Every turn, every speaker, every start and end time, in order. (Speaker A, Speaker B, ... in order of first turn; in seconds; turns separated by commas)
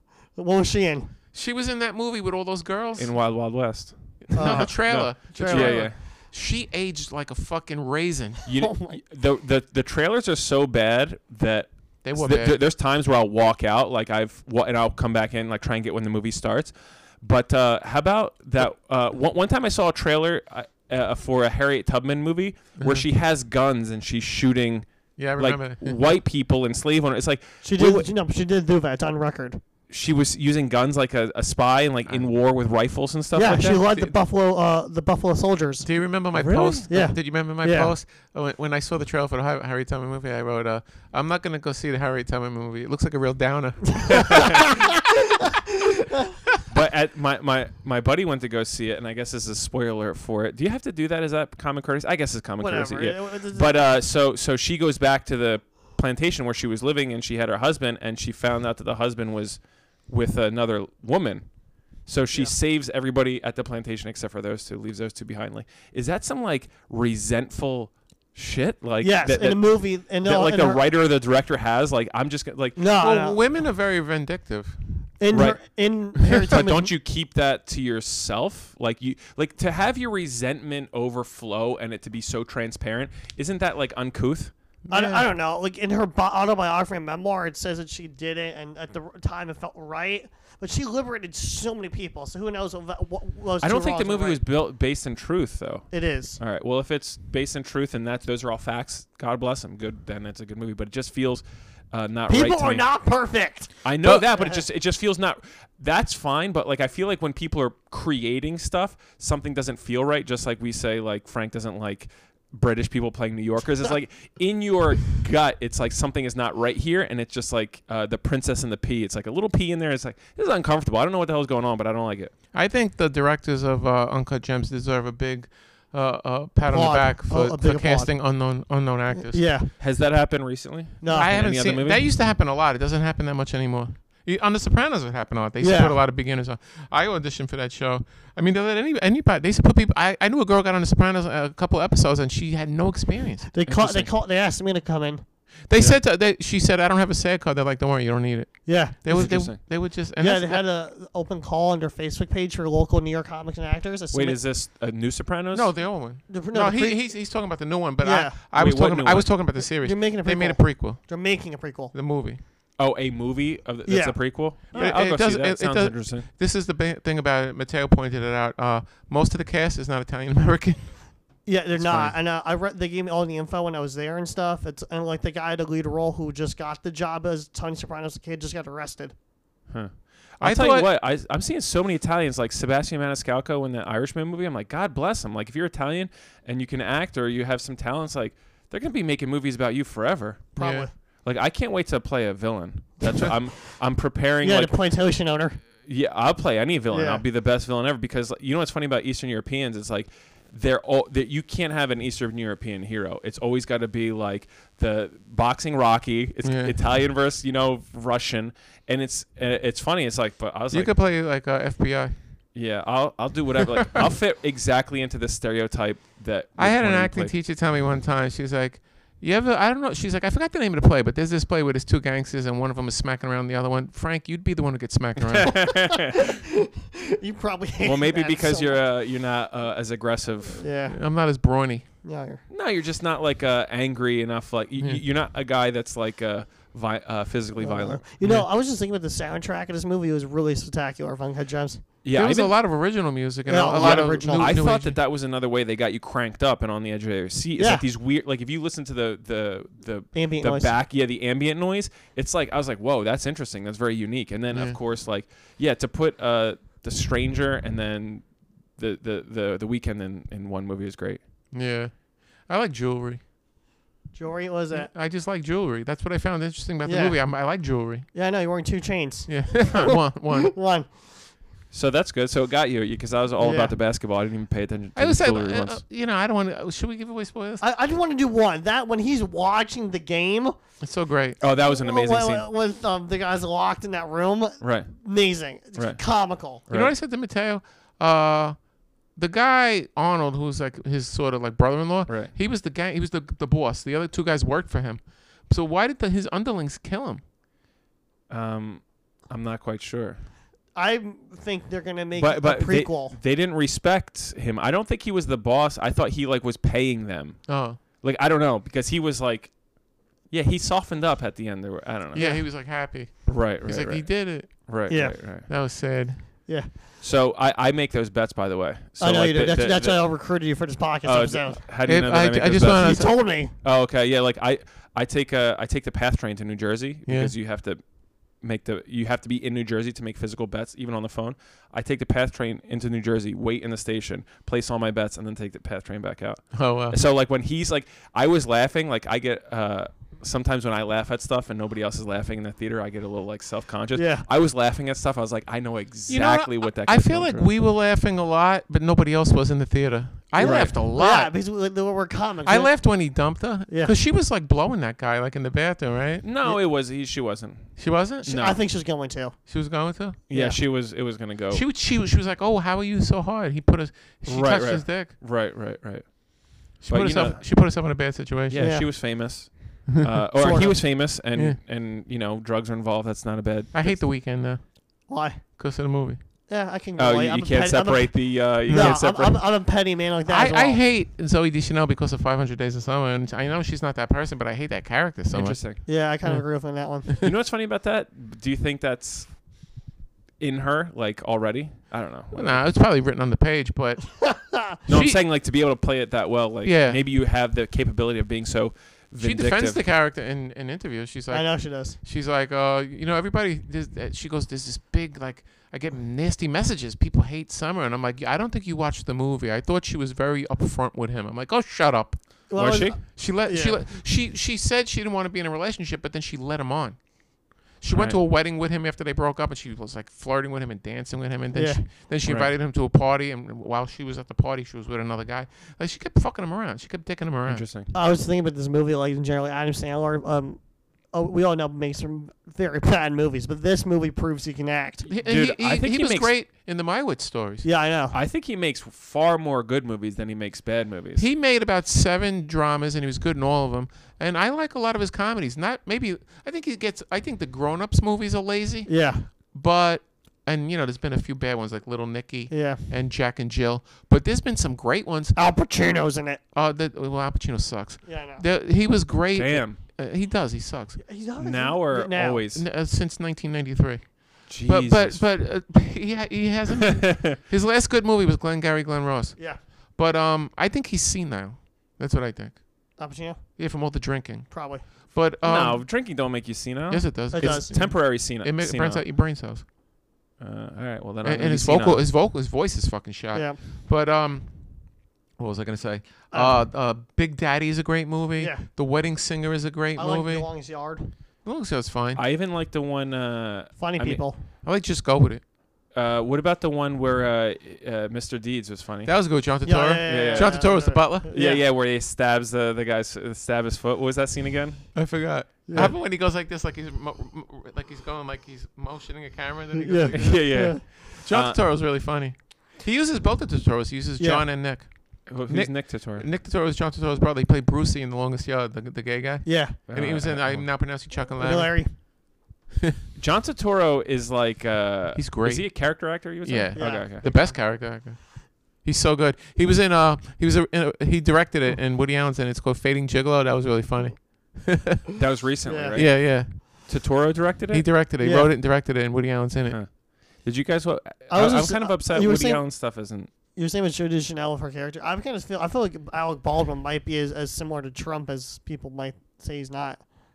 Speaker A: 0.3-1.1, Speaker B: 1.3-3.1, Speaker C: 3.0-6.0, Speaker B: 4.3-8.4, Speaker A: 4.3-5.9, Speaker C: 8.4-28.1, Speaker A: 8.5-9.0, Speaker B: 12.0-12.6, Speaker B: 22.8-23.0, Speaker B: 25.2-26.0, Speaker A: 27.6-29.6, Speaker C: 29.9-33.8, Speaker A: 33.3-35.9, Speaker B: 33.5-34.1, Speaker B: 35.8-45.5, Speaker C: 36.3-36.9, Speaker A: 36.9-37.9, Speaker A: 44.1-44.9, Speaker C: 44.1-44.6, Speaker C: 46.7-72.8, Speaker A: 52.6-53.8, Speaker A: 69.0-70.8, Speaker A: 72.8-73.4, Speaker B: 73.0-74.8, Speaker A: 75.2-76.9, Speaker C: 75.3-75.6, Speaker C: 76.1-84.5, Speaker B: 84.8-85.3, Speaker A: 84.9-94.4, Speaker C: 93.6-102.9, Speaker A: 95.9-96.4, Speaker A: 102.3-104.6, Speaker C: 103.8-122.3, Speaker B: 122.5-129.4, Speaker A: 126.7-128.2, Speaker A: 129.1-129.7, Speaker C: 129.8-132.1, Speaker A: 131.0-131.4, Speaker B: 131.1-143.5, Speaker A: 135.6-136.0, Speaker A: 143.5-145.2, Speaker C: 143.6-144.1, Speaker B: 145.7-150.6, Speaker A: 148.7-149.3, Speaker C: 149.1-149.6, Speaker A: 150.2-154.4, Speaker C: 154.1-155.7, Speaker B: 155.5-161.3, Speaker A: 156.3-157.2, Speaker A: 158.0-158.3, Speaker C: 158.5-159.4, Speaker A: 159.6-161.9, Speaker B: 161.9-162.4, Speaker C: 162.8-166.3, Speaker A: 163.8-165.0, Speaker B: 164.7-171.0, Speaker A: 171.4-179.1, Speaker C: 171.7-172.1, Speaker C: 179.7-190.6, Speaker B: 180.4-180.9, Speaker A: 190.6-190.9, Speaker B: 190.6-190.9, Speaker C: 191.2-194.8, Speaker A: 193.0-193.4, Speaker A: 194.4-195.6, Speaker C: 195.8-210.9, Speaker A: 196.9-197.2, Speaker B: 206.4-206.8, Speaker B: 210.7-212.1, Speaker C: 212.5-217.3, Speaker B: 216.6-225.7, Speaker C: 225.3-226.3, Speaker A: 225.6-228.8, Speaker C: 227.8-230.7, Speaker A: 230.6-231.0, Speaker B: 230.9-231.9, Speaker A: 232.0-232.4, Speaker C: 232.5-238.3, Speaker A: 237.6-241.8, Speaker C: 242.0-242.5, Speaker B: 242.1-245.0, Speaker A: 243.4-244.6, Speaker C: 243.8-261.2, Speaker A: 247.6-247.8, Speaker A: 250.1-250.7, Speaker B: 254.5-254.8, Speaker B: 261.5-263.2, Speaker A: 264.1-264.9, Speaker B: 264.7-268.1, Speaker A: 266.8-267.3, Speaker A: 268.1-270.9, Speaker B: 269.3-270.6, Speaker C: 271.7-275.8, Speaker A: 273.4-273.8, Speaker B: 274.9-277.6, Speaker A: 277.6-280.6, Speaker B: 280.8-281.4, Speaker C: 281.4-282.4, Speaker A: 281.4-286.6, Speaker C: 284.6-284.9, Speaker C: 285.7-286.0, Speaker C: 286.6-286.9, Speaker B: 286.7-297.2, Speaker C: 292.1-292.3, Speaker C: 298.3-300.2, Speaker A: 300.7-303.2, Speaker C: 302.1-309.7, Speaker B: 307.5-307.8, Speaker C: 310.2-315.5, Speaker B: 312.1-316.3, Speaker A: 312.1-312.4, Speaker A: 314.9-315.4, Speaker C: 317.0-320.1, Speaker A: 319.0-321.6, Speaker C: 321.0-347.5, Speaker B: 321.8-323.1, Speaker A: 322.7-323.5, Speaker B: 327.1-327.3, Speaker B: 336.5-337.0, Speaker A: 343.9-344.3, Speaker B: 346.1-351.3, Speaker C: 350.4-350.8, Speaker A: 350.9-352.8, Speaker B: 352.4-356.6, Speaker A: 353.7-353.9, Speaker C: 356.2-358.6, Speaker B: 357.8-358.3, Speaker A: 358.2-359.4, Speaker B: 359.5-360.2, Speaker C: 360.3-361.6, Speaker A: 360.3-360.6, Speaker B: 361.5-365.1, Speaker C: 364.2-367.4, Speaker B: 366.8-368.8, Speaker C: 368.5-374.0, Speaker A: 368.6-368.9, Speaker A: 370.4-370.8, Speaker B: 371.3-371.6, Speaker B: 373.7-376.2, Speaker A: 375.1-375.4, Speaker A: 376.5-380.8, Speaker C: 377.0-379.4, Speaker B: 378.7-379.0, Speaker B: 380.3-387.3, Speaker C: 385.3-385.8, Speaker A: 385.8-387.1, Speaker C: 387.2-389.7, Speaker C: 390.4-392.6, Speaker B: 392.3-395.2, Speaker A: 394.2-394.8, Speaker C: 394.9-399.8, Speaker B: 396.6-397.0, Speaker B: 399.2-427.6, Speaker A: 401.3-402.0, Speaker A: 412.5-413.8, Speaker C: 412.6-413.0, Speaker C: 417.9-418.2, Speaker A: 421.5-421.9, Speaker C: 422.2-422.5, Speaker C: 427.5-427.9, Speaker A: 427.9-435.1, Speaker B: 435.1-437.7, Speaker C: 435.1-436.3, Speaker A: 437.6-438.2, Speaker C: 438.1-441.2, Speaker B: 441.2-455.4, Speaker A: 448.9-449.3, Speaker A: 452.5-452.9, Speaker A: 455.3-456.4, Speaker B: 456.5-461.0, Speaker A: 458.0-458.4, Speaker C: 459.3-459.8, Speaker A: 461.0-462.4, Speaker C: 461.4-462.6, Speaker B: 462.5-473.0, Speaker C: 464.5-465.2, Speaker C: 467.0-467.4, Speaker A: 469.4-469.6, Speaker A: 473.0-473.4, Speaker B: 473.6-476.0, Speaker A: 474.5-474.9, Speaker C: 475.4-479.1, Speaker B: 476.9-479.6, Speaker A: 477.3-477.7, Speaker C: 480.4-482.1, Speaker B: 481.2-490.5, Speaker A: 483.3-483.6, Speaker A: 486.3-486.7, Speaker A: 488.4-488.7, Speaker A: 489.9-491.1, Speaker B: 491.4-492.2, Speaker C: 492.1-494.2, Speaker A: 493.8-494.4, Speaker B: 494.6-495.4, Speaker C: 495.9-499.1, Speaker B: 499.0-501.4, Speaker A: 499.6-501.6, Speaker C: 500.0-504.9, Speaker B: 504.9-522.1, Speaker A: 505.7-505.9, Speaker A: 509.7-510.8, Speaker C: 510.1-511.6, Speaker A: 514.2-514.5, Speaker C: 515.3-516.2, Speaker A: 519.4-519.8, Speaker C: 519.9-520.7, Speaker A: 521.4-522.0, Speaker C: 523.2-527.2, Speaker B: 525.1-535.2, Speaker A: 526.7-527.6, Speaker C: 535.2-537.9, Speaker A: 535.6-536.0, Speaker B: 535.9-537.0, Speaker B: 537.7-539.8, Speaker A: 538.2-538.5, Speaker C: 539.7-543.3, Speaker A: 541.3-542.7, Speaker A: 543.5-550.0